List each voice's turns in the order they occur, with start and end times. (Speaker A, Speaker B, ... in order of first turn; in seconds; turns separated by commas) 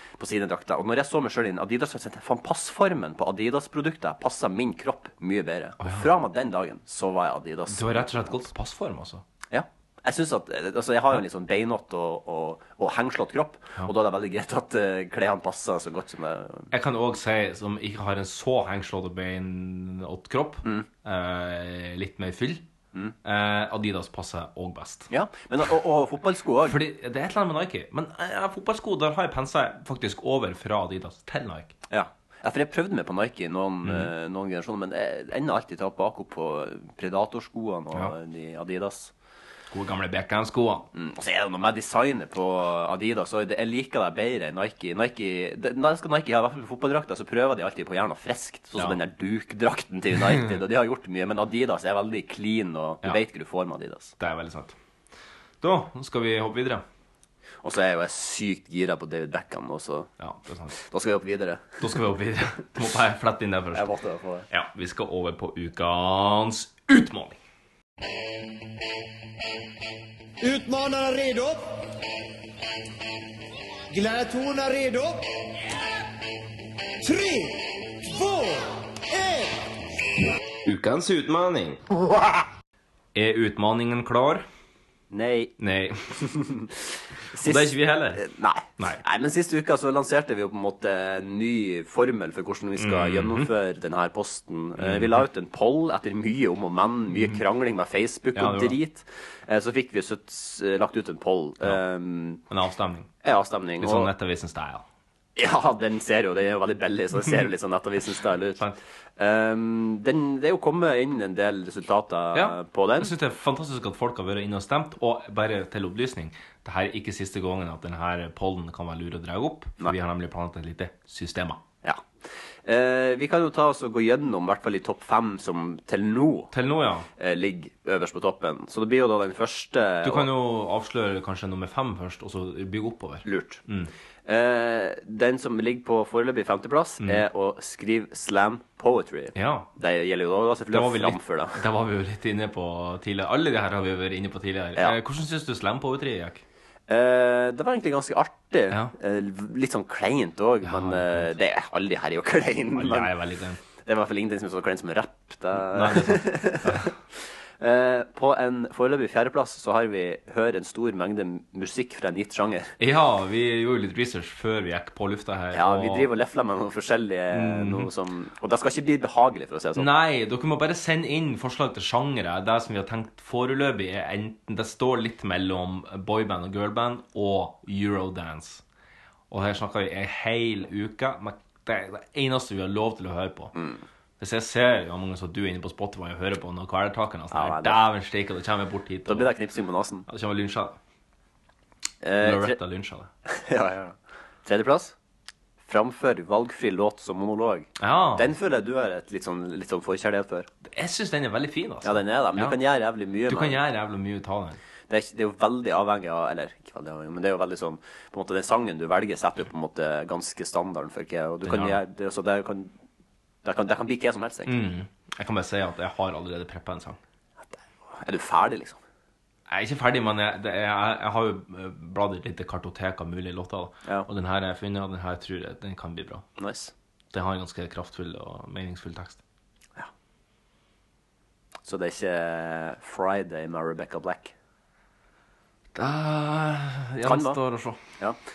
Speaker A: 0.2-8.3, Speaker B: 5.8-6.1, Speaker B: 7.7-9.2, Speaker A: 9.5-16.7, Speaker B: 16.7-22.6, Speaker B: 23.2-25.1, Speaker A: 25.1-26.8, Speaker B: 26.6-31.7, Speaker A: 31.9-39.1, Speaker B: 33.8-34.1, Speaker B: 39.7-40.9, Speaker A: 40.9-54.1, Speaker B: 54.2-54.7, Speaker B: 55.6-56.8, Speaker A: 57.6-60.1, Speaker B: 60.2-60.8, Speaker A: 60.8-61.8, Speaker B: 61.8-63.9, Speaker A: 63.7-64.5, Speaker B: 64.5-67.4, Speaker C: 70.4-71.8, Speaker C: 73.9-75.2, Speaker C: 77.0-79.5, Speaker B: 80.6-81.8, Speaker B: 83.1-84.4, Speaker A: 85.1-85.5, Speaker B: 85.6-86.1, Speaker A: 86.2-86.7, Speaker A: 87.3-102.4, Speaker B: 87.4-88.2, Speaker B: 92.8-93.5, Speaker B: 94.8-95.2, Speaker B: 97.1-97.4, Speaker B: 98.3-98.8, Speaker B: 102.5-103.1, Speaker A: 103.2-104.1, Speaker B: 103.8-104.8, Speaker A: 105.3-108.6, Speaker A: 109.2-113.1, Speaker B: 112.3-121.6, Speaker A: 122.7-126.5, Speaker B: 126.5-127.1, Speaker A: 127.2-130.3, Speaker B: 130.0-133.9, Speaker A: 133.2-133.6, Speaker A: 134.2-141.6, Speaker B: 139.3-139.7, Speaker B: 140.7-146.4, Speaker A: 146.9-153.1, Speaker B: 150.6-151.3, Speaker B: 152.7-153.6, Speaker A: 153.8-156.9, Speaker B: 155.6-156.9, Speaker A: 157.6-162.7, Speaker B: 162.8-166.1, Speaker A: 165.5-169.9, Speaker B: 167.3-167.9, Speaker B: 169.8-178.6, Speaker B: 179.3-183.5, Speaker A: 183.5-183.8, Speaker B: 184.2-189.3, Speaker A: 187.3-187.8, Speaker A: 189.1-190.1, Speaker B: 190.1-190.8, Speaker A: 192.0-192.6, Speaker B: 192.2-193.1, Speaker A: 193.3-194.9, Speaker A: 195.7-200.5, Speaker B: 197.8-198.3, Speaker B: 200.7-202.6, Speaker A: 201.8-203.6, Speaker B: 203.3-204.6, Speaker A: 204.9-212.7, Speaker B: 211.4-211.8, Speaker A: 213.4-214.6, Speaker B: 214.5-217.0, Speaker A: 217.5-218.8, Speaker B: 219.5-226.2, Speaker A: 226.4-226.7, Speaker B: 227.1-229.2, Speaker A: 231.7-234.3, Speaker B: 235.7-237.8, Speaker A: 237.0-237.4